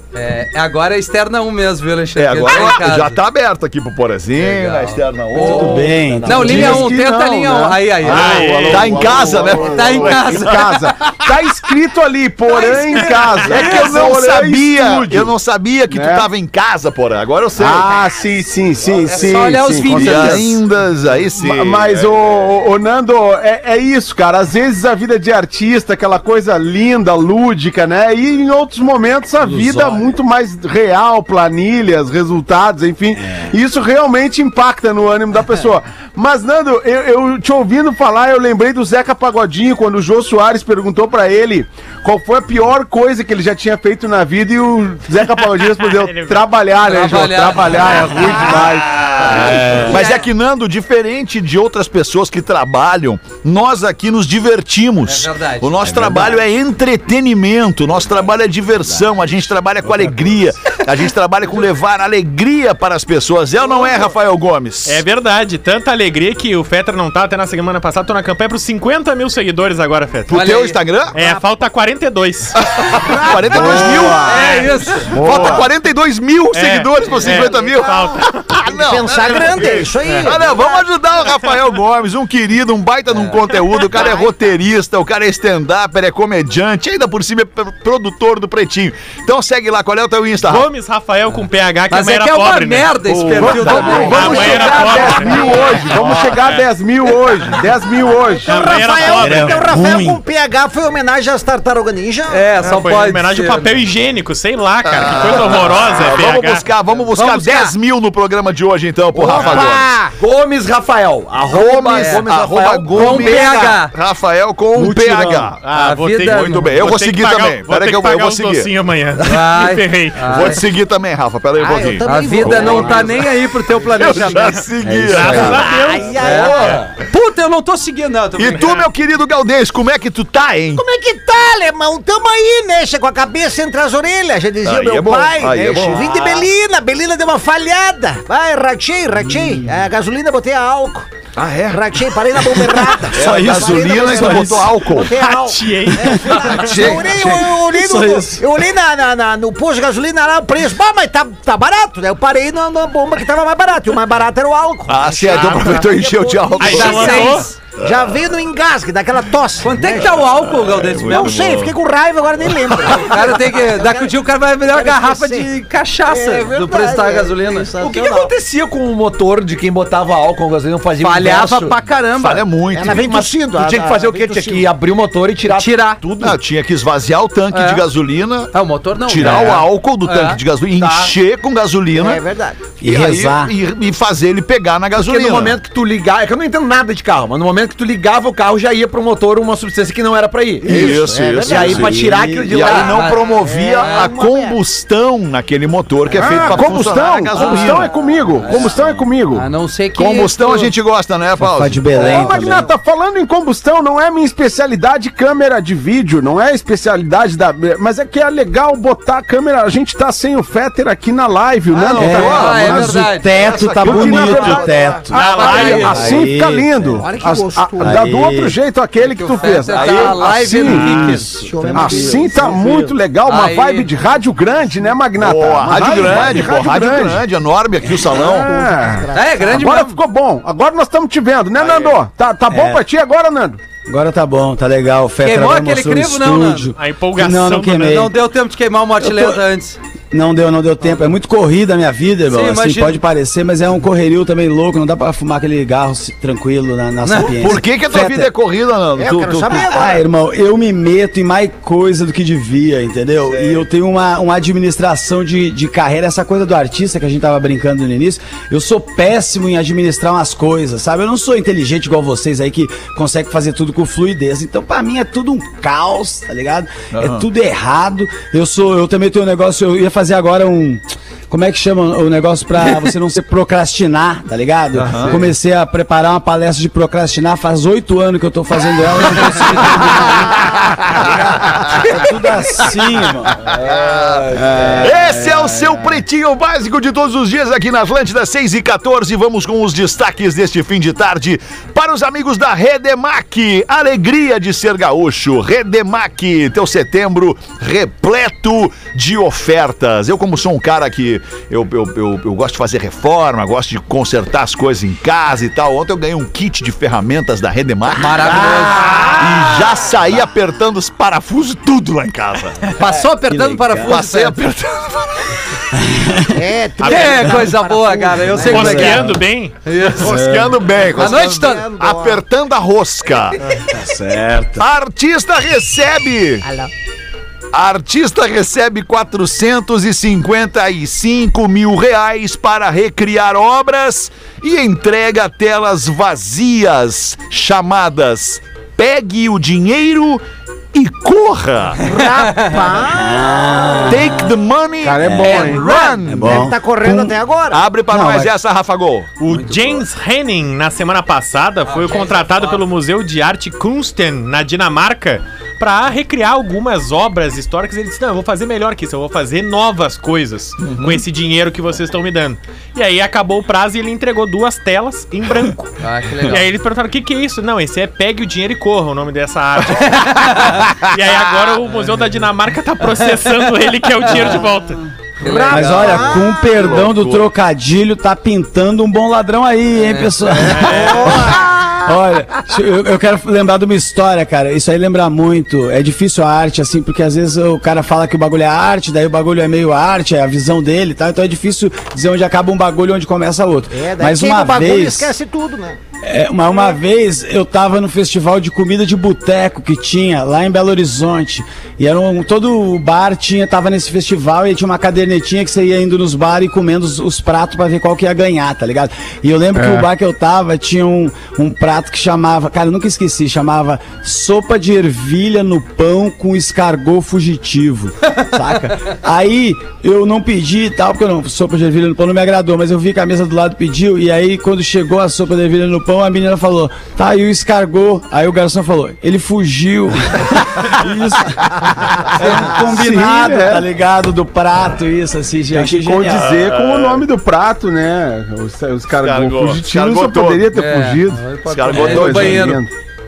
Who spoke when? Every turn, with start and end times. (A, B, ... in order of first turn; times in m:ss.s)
0:00.1-0:03.2 A
0:02.2-0:06.8 B
0:04.4-0:08.5 A
0:05.4-0:06.7 C
0:05.9-0:06.8 D
0:06.3-0:15.3 E
0:08.1-0:09.1 F
0:08.7-0:11.1 B
0:09.6-0:10.9 A
0:12.9-0:17.9 B
0:12.9-0:13.6 F
0:15.9-0:16.3 E
0:17.6-0:20.5 E
0:19.0-0:19.4 G
0:19.1-0:20.6 A
0:19.9-0:22.1 B
0:21.3-0:49.5 E
0:29.4-0:30.1 A
0:45.3-0:47.2 F
0:46.8-0:48.5 A
0:49.0-1:05.0 B
0:49.3-0:50.0 C
0:49.8-0:50.2 A
0:55.0-0:56.3 A
1:04.9-1:10.4 F
1:10.3-1:11.2 B
1:10.3-1:10.8 A
1:11.1-1:12.6 F
1:12.6-1:30.7 B
1:13.0-1:14.2 G
1:13.4-1:14.5 E
1:14.2-1:15.3 A
1:15.1-1:15.7 E
1:16.5-1:18.4 F
1:17.0-1:18.1 G
1:18.7-1:20.8 G
1:23.1-1:23.4 A
1:23.9-1:24.3 G
1:30.4-1:36.7 F
1:31.9-1:35.0 A
1:33.3-1:38.7 E
1:33.9-1:35.8 G
1:38.3-1:42.4 G
1:38.5-1:39.7 F
1:39.1-1:40.2 C
1:42.3-1:43.8 A
1:42.6-1:46.6 F
1:44.8-1:49.9 B
1:47.2-1:47.7 A
1:49.1-1:50.1 G
1:49.3-1:49.7 F
1:50.2-1:53.8 D
1:51.5-1:55.6 B
1:51.8-1:52.2 A
1:52.9-1:53.9 A
1:54.8-1:56.7 A
1:55.6-2:00.5 F
1:56.3-1:58.7 B
1:59.2-2:00.6 A
2:00.2-2:06.8 B
2:01.6-2:03.2 G
2:02.0-2:04.6 A
2:04.9-2:05.4 C
2:05.0-2:06.1 F
2:05.0-2:06.8 G
2:06.2-2:08.9 A
2:08.4-2:10.8 B
2:10.8-2:21.1 G
2:14.6-2:16.4 B
2:21.4-2:21.8 B
2:21.7-2:40.1 G
2:23.0-2:25.2 B
2:23.1-2:24.8 C
2:25.0-2:27.0 F
2:26.4-2:27.5 B
2:26.9-2:28.4 C
2:34.9-2:38.1 B
2:35.3-2:35.7 F
2:36.6-2:37.5 F
2:36.7-2:37.5 A
2:39.6-2:41.4 A
2:40.0-2:41.8 B
2:41.1-2:44.1 G
2:42.4-2:43.1 B
2:42.9-2:47.7 A
2:44.7-2:45.5 G
2:46.0-2:48.3 G
2:47.8-2:51.8 D
2:51.0-2:52.5 A
2:52.1-2:53.1 B
2:52.7-2:54.7 G
2:52.9-2:56.3 D
2:55.5-2:56.0 A
2:56.2-2:58.5 B
2:57.5-2:57.8 A
2:58.5-3:00.4 A
2:59.0-3:02.2 B
2:59.3-2:59.5 D
3:00.8-3:01.1 D
3:01.9-3:02.6 G
3:02.8-3:03.5 C
3:02.8-3:05.6 B
3:04.9-3:13.1 D
3:10.6-3:12.0 G
3:10.6-3:19.0 B
3:11.9-3:12.5 C
3:12.6-3:14.1 A
3:13.2-3:14.6 G
3:16.1-3:16.8 G
3:16.2-3:19.5 E
3:17.3-3:17.8 A
3:17.4-3:18.1 G
3:18.4-3:18.8 A
3:19.3-3:20.7 A
3:20.0-3:22.1 B
3:21.4-3:22.7 C
3:21.9-3:32.6 E
3:22.0-3:22.3 G
3:31.7-3:33.3 A
3:31.9-3:35.1 B
3:32.0-3:37.0 C
3:33.8-3:34.7 E
3:34.4-3:36.1 F
3:35.1-3:36.1 A
3:35.2-3:41.2 E
3:37.0-3:38.0 G
3:37.8-3:38.5 C
3:39.0-3:41.6 A
3:39.7-3:40.2 B
3:40.7-3:41.2 F
3:40.8-3:42.9 C
3:41.4-3:42.8 G
3:41.7-3:47.2 E
3:43.2-3:43.9 A
3:45.2-3:48.5 B
3:47.9-3:49.7 G
3:48.3-3:53.6 E
3:49.1-3:50.0 A
3:51.6-3:52.0 F
3:52.5-3:52.8 C
3:53.8-3:58.2 C
3:55.2-3:56.7 A
3:56.8-3:58.0 F
3:57.8-3:59.8 A
3:59.0-3:59.4 C
4:00.1-4:08.3 C
4:02.3-4:03.0 A
4:07.0-4:07.5 A
4:07.2-4:09.8 B
4:09.0-4:10.0 G
4:09.5-4:40.4 C
4:13.3-4:13.6 B
4:26.9-4:27.3 B
4:34.8-4:35.2 B
4:40.2-4:42.0 B
4:41.0-4:43.4 C
4:43.4-5:08.4 B
4:44.3-4:46.0 E
5:08.0-5:09.0 A
5:08.4-5:09.2 C
5:08.7-5:09.1 G
5:09.2-5:12.8 B
5:12.8-5:14.4 A
5:13.3-5:14.0 C
5:13.8-5:15.4 B
5:15.8-5:16.4 C
5:16.2-5:19.1 G
5:16.8-5:17.5 F
5:16.8-5:20.1 A
5:18.5-5:19.6 F
5:18.5-5:19.1 C
5:20.0-5:23.4 B
5:20.2-5:20.5 C
5:20.9-5:21.7 A
5:21.0-5:22.2 G
5:23.7-5:24.6 C
5:24.6-5:26.4 B
5:26.4-5:26.7 G
5:27.5-5:41.8 B
5:41.8-5:43.4 G
5:42.2-5:42.6 A
5:42.9-5:44.3 C
5:43.9-5:46.5 B
5:44.8-5:45.8 E
5:45.0-5:45.4 C
5:45.3-5:47.7 G
5:45.3-5:45.9 A
5:46.1-5:47.2 C
5:47.5-5:49.1 B
5:47.9-5:48.3 C
5:49.2-6:14.8 F
5:49.3-5:49.8 A
5:51.7-5:52.6 A
6:00.6-6:01.0 B
6:05.8-6:06.5 A
6:10.0-6:10.6 A
6:15.2-6:16.2 A
6:15.2-6:16.5 G
6:15.5-6:35.1 C
6:16.4-6:17.3 B
6:20.4-6:21.8 G
6:20.6-6:21.0 F
6:33.7-6:35.8 G
6:36.0-7:16.3 C
6:49.6-6:49.9 E
7:12.2-7:13.7 E
7:15.5-7:22.7 E
7:16.1-7:17.0 B
7:19.0-7:20.5 B
7:20.5-7:22.6 A
7:21.5-7:22.6 B